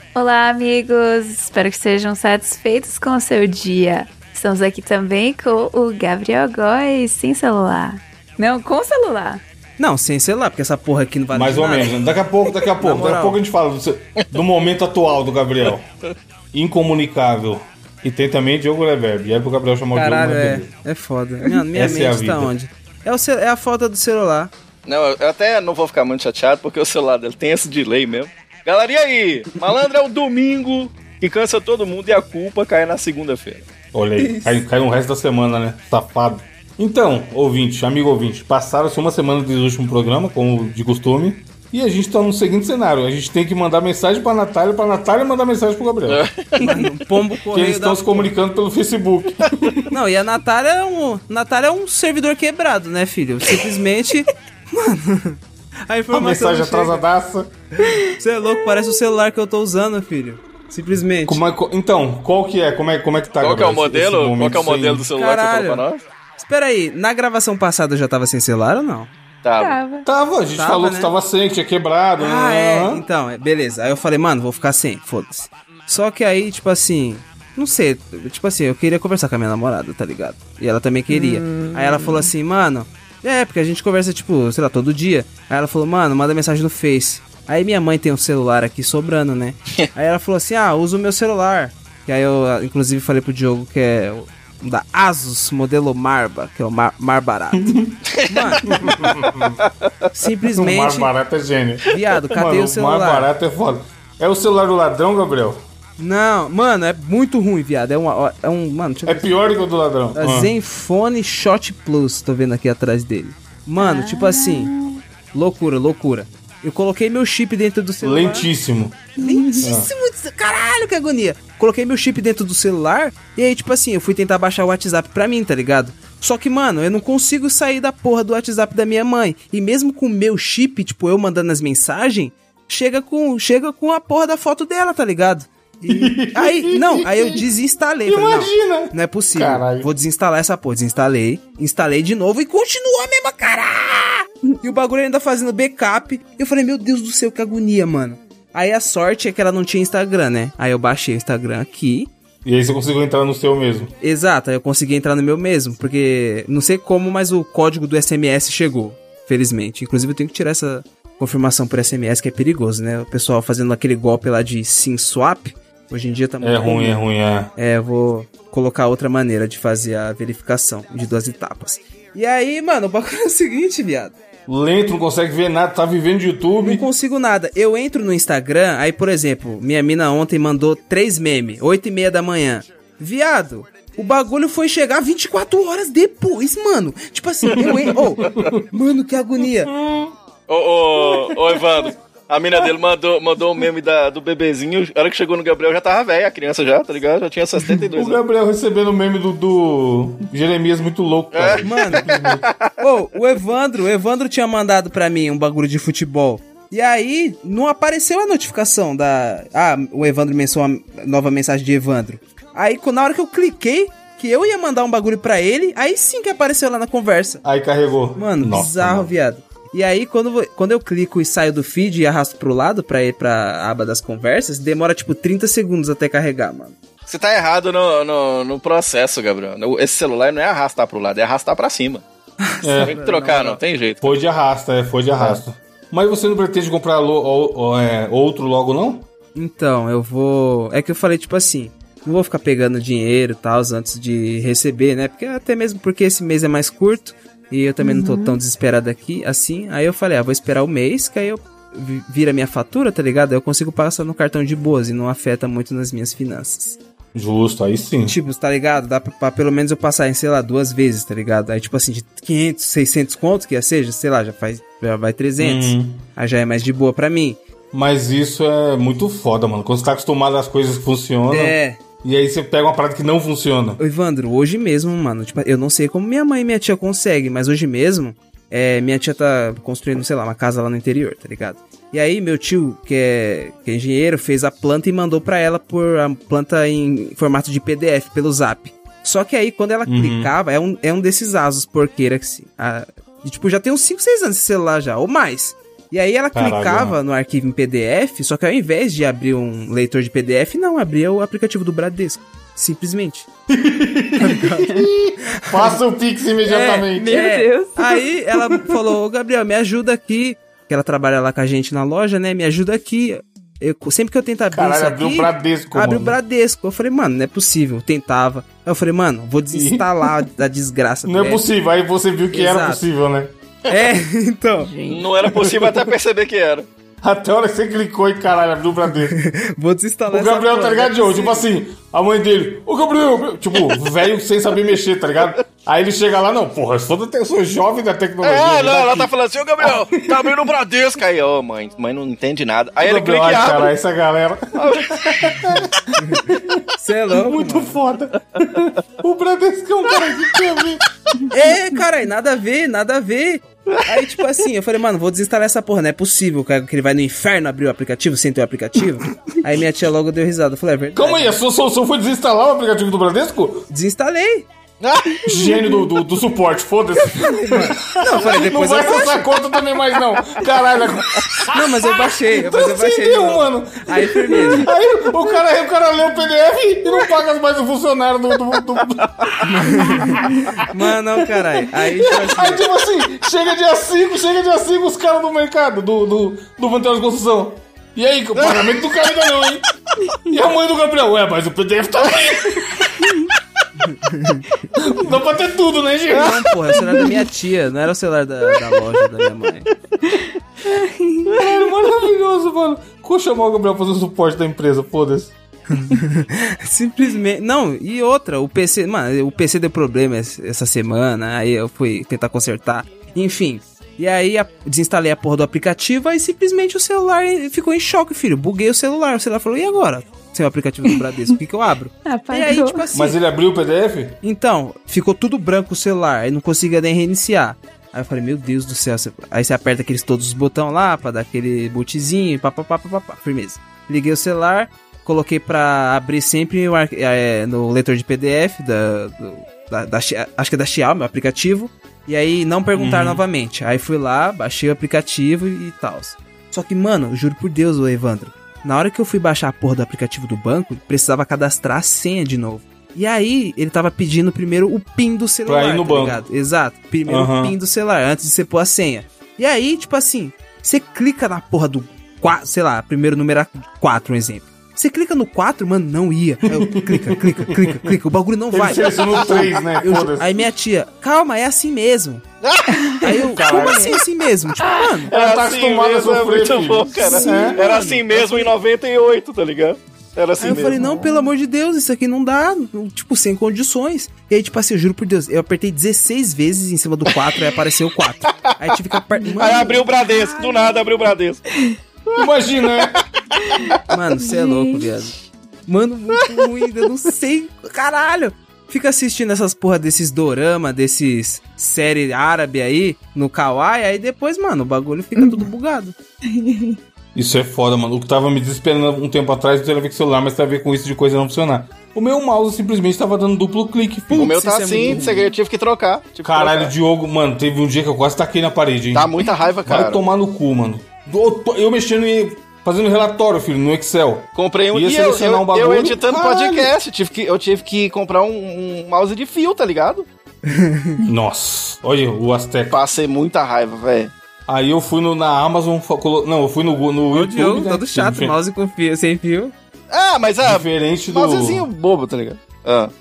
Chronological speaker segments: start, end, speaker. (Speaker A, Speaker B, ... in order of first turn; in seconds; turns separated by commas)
Speaker A: 0.1-9.4, Speaker B: 9.8-12.0, Speaker C: 11.3-15.9, Speaker B: 12.6-13.4, Speaker C: 16.5-20.7, Speaker B: 19.9-24.5, Speaker C: 21.7-22.5, Speaker D: 24.9-33.7, Speaker C: 33.9-46.8, Speaker B: 34.2-34.6, Speaker D: 46.1-46.9, Speaker B: 46.5-48.3, Speaker C: 47.5-49.9, Speaker B: 49.9-57.0, Speaker C: 56.1-57.5, Speaker B: 57.8-61.4, Speaker C: 61.2-65.1, Speaker D: 63.4-66.0, Speaker B: 65.2-65.9, Speaker B: 66.4-69.1, Speaker D: 69.4-69.8, Speaker A: 69.6-70.1, Speaker C: 70.0-73.0, Speaker B: 70.5-71.1, Speaker B: 72.2-98.9, Speaker A: 81.1-82.3, Speaker C: 97.5-98.0, Speaker D: 98.3-98.8, Speaker C: 98.7-99.6, Speaker B: 100.1-101.1, Speaker C: 100.5-105.6, Speaker B: 101.9-103.3, Speaker B: 106.0-109.3, Speaker C: 109.1-110.5, Speaker B: 110.2-114.7, Speaker A: 113.8-115.0, Speaker B: 115.3-118.5, Speaker C: 118.0-119.1, Speaker B: 119.2-152.1, Speaker A: 119.2-119.7, Speaker C: 119.6-119.9, Speaker C: 135.9-137.4, Speaker C: 138.1-139.9, Speaker C: 152.4-153.9, Speaker B: 154.0-167.0, Speaker C: 166.4-167.5, Speaker B: 167.6-174.2, Speaker C: 174.5-176.9, Speaker B: 176.6-189.8, Speaker C: 187.6-188.7, Speaker C: 189.7-190.1, Speaker D: 190.5-198.2, Speaker C: 191.0-191.9, Speaker C: 197.9-202.5, Speaker D: 201.3-202.6, Speaker B: 201.6-202.2, Speaker B: 202.8-217.4, Speaker C: 217.4-219.1, Speaker B: 218.2-226.8, Speaker D: 227.1-232.0, Speaker B: 232.4-233.6, Speaker C: 232.6-232.9, Speaker D: 232.8-234.2, Speaker C: 234.0-239.1, Speaker B: 239.3-256.8, Speaker A: 247.8-248.4, Speaker C: 257.1-258.2, Speaker B: 258.1-267.4, Speaker C: 265.4-266.1, Speaker C: 267.7-273.8, Speaker B: 271.3-271.8, Speaker B: 273.8-303.3, Speaker C: 289.9-290.3, Speaker C: 296.3-297.0, Speaker C: 303.5-307.2, Speaker B: 304.2-305.8, Speaker B: 306.4-321.4, Speaker A: 306.9-308.2, Speaker C: 314.5-316.2, Speaker C: 319.5-320.1, Speaker C: 321.1-323.3, Speaker B: 322.3-322.8, Speaker B: 323.7-324.7, Speaker A: 324.6-325.1, Speaker D: 324.9-326.7, Speaker C: 327.0-329.2, Speaker B: 329.1-331.5, Speaker C: 330.1-340.4, Speaker D: 338.2-343.7, Speaker C: 342.8-350.8, Speaker D: 344.6-345.6, Speaker B: 346.8-347.8, Speaker B: 351.3-361.4, Speaker C: 360.9-363.7, Speaker B: 363.7-364.5, Speaker D: 364.8-365.5, Speaker C: 365.2-393.1, Speaker A: 365.4-365.7, Speaker B: 367.2-369.4, Speaker B: 371.5-374.7, Speaker B: 379.5-382.6, Speaker D: 388.4-388.7, Speaker B: 393.8-394.5, Speaker C: 394.7-397.0, Speaker B: 396.1-399.7, Speaker A: 400.0-401.4, Speaker C: 401.3-405.4, Speaker B: 405.7-423.2, Speaker A: 422.1-422.9, Speaker C: 422.9-424.2, Speaker B: 424.2-472.2, Speaker C: 442.8-443.2, Speaker C: 455.5-456.2, Speaker C: 457.1-457.6, Speaker C: 466.5-467.9, Speaker C: 468.5-470.4, Speaker D: 472.4-473.1, Speaker A: 472.8-474.0, Speaker B: 473.0-475.1, Speaker C: 473.2-474.0, Speaker D: 475.1-480.8, Speaker C: 475.1-477.6, Speaker A: 477.0-477.7, Speaker B: 477.0-478.5, Speaker B: 480.4-490.8, Speaker A: 480.5-481.3, Speaker A: 489.2-490.7, Speaker D: 489.4-491.4, Speaker C: 492.1-493.0, Speaker A: 493.4-494.9, Speaker B: 493.9-505.9, Speaker A: 505.2-505.5, Speaker A: 506.3-506.8, Speaker C: 507.1-514.3, Speaker B: 514.1-515.3, Speaker D: 514.1-516.7, Speaker C: 516.2-526.7, Speaker D: 518.9-520.0, Speaker D: 524.4-530.1, Speaker B: 530.5-531.0, Speaker C: 531.1-532.8, Speaker D: 532.7-534.1, Speaker C: 534.5-538.4, Speaker B: 537.1-539.5, Speaker D: 539.9-542.9, Speaker C: 540.4-541.7